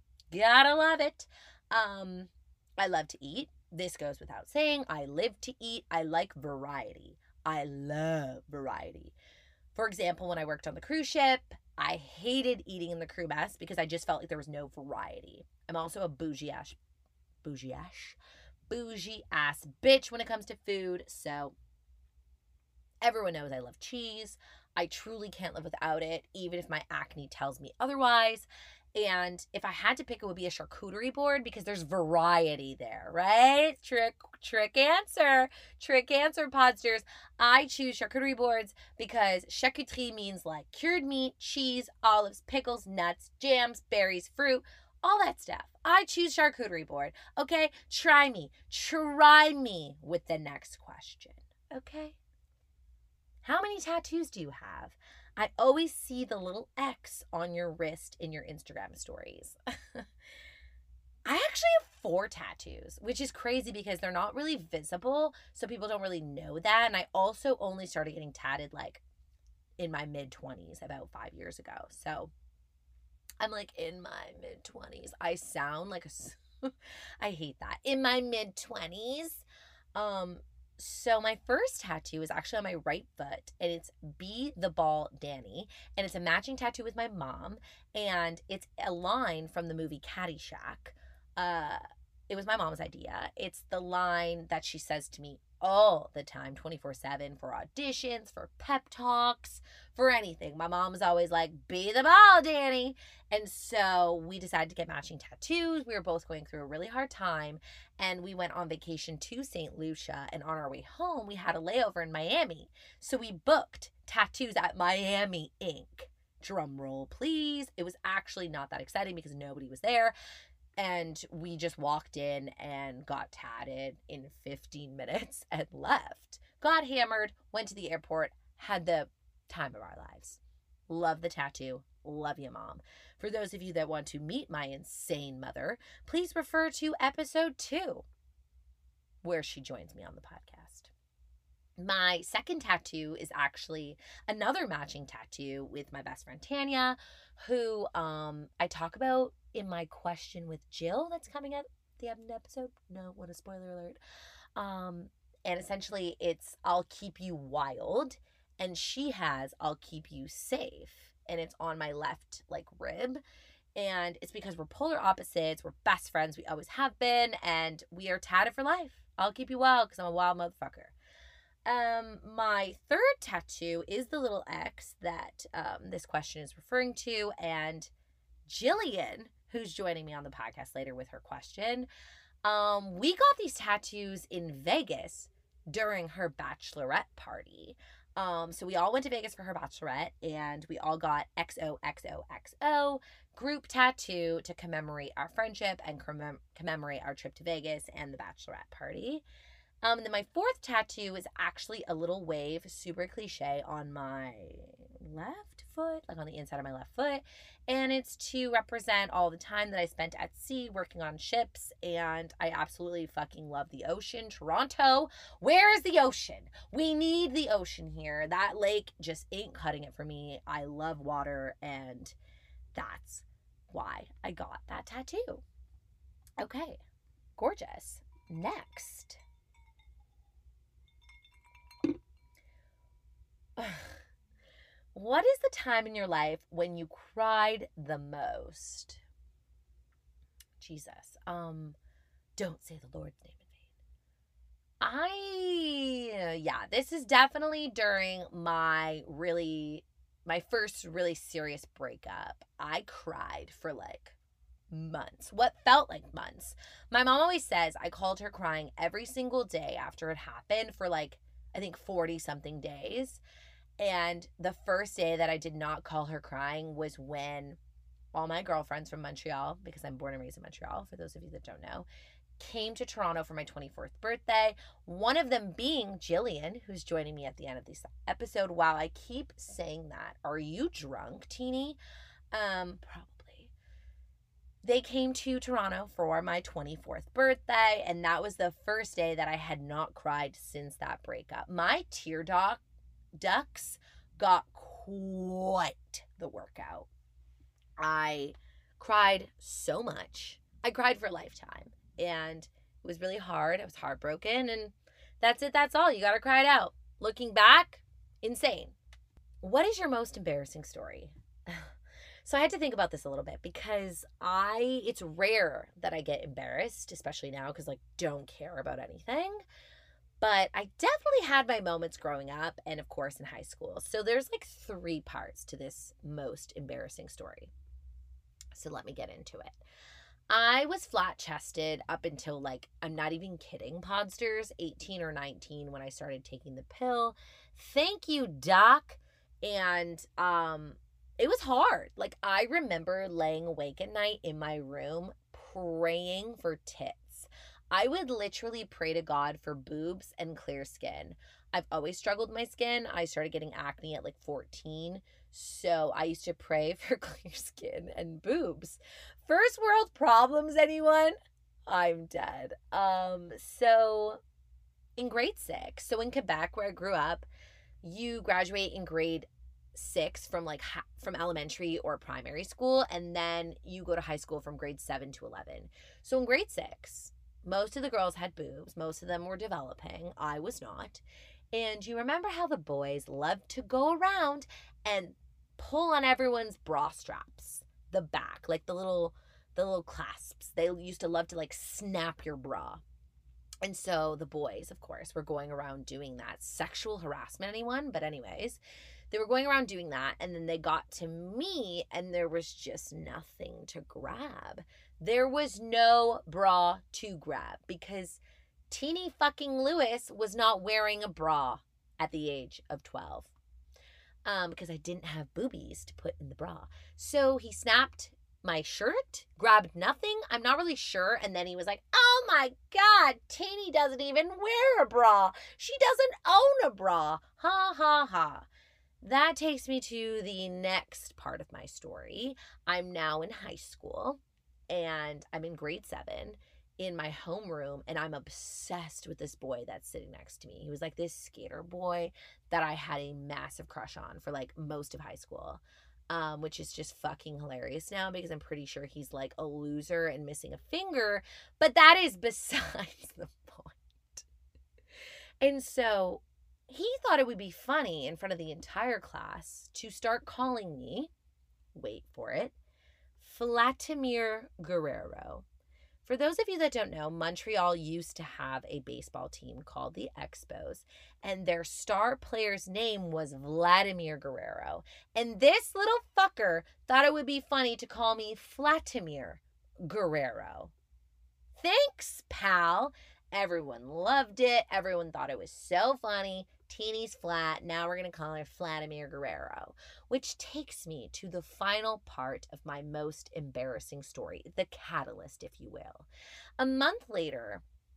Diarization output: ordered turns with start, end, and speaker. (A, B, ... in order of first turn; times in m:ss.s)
0:00.3-0:09.1 A
0:09.7-0:16.8 A
0:17.4-0:18.2 A
0:18.7-0:21.6 A
0:23.0-0:52.2 A
0:53.4-1:00.0 A
1:01.3-1:09.0 A
1:09.8-1:12.3 A
1:13.4-2:00.1 A
2:00.8-2:18.1 A
2:19.2-2:20.9 A
2:21.8-2:34.0 A
2:34.6-2:43.2 A
2:43.8-2:50.9 A
2:51.7-2:57.9 A
2:58.5-3:01.9 A
3:02.4-3:19.2 A
3:19.8-3:42.2 A
3:42.8-3:45.4 A
3:46.4-3:46.8 A
3:47.4-3:49.2 A
3:53.6-3:54.0 A
3:54.9-3:59.0 A
4:00.6-4:01.8 A
4:02.4-4:03.6 A
4:04.8-4:14.2 A
4:14.7-4:23.2 A
4:23.8-4:27.6 A
4:28.1-4:31.9 A
4:32.4-4:41.8 A
4:42.3-4:43.5 A
4:44.6-4:52.6 A
4:53.2-4:56.9 A
4:57.8-5:08.8 A
5:09.4-5:11.7 A
5:12.2-5:19.4 A
5:20.2-5:27.5 A
5:28.6-5:29.6 A
5:30.3-6:01.2 A
6:01.7-6:04.2 A
6:05.0-6:07.3 A
6:07.8-6:32.8 A
6:33.6-6:38.6 A
6:39.1-6:53.3 A
6:54.3-7:08.5 A
7:09.0-7:34.2 A
7:35.4-7:41.1 A
7:41.8-7:42.6 A
7:43.2-7:45.4 A
7:46.0-8:00.7 A
8:01.6-8:16.1 A
8:16.6-8:17.6 A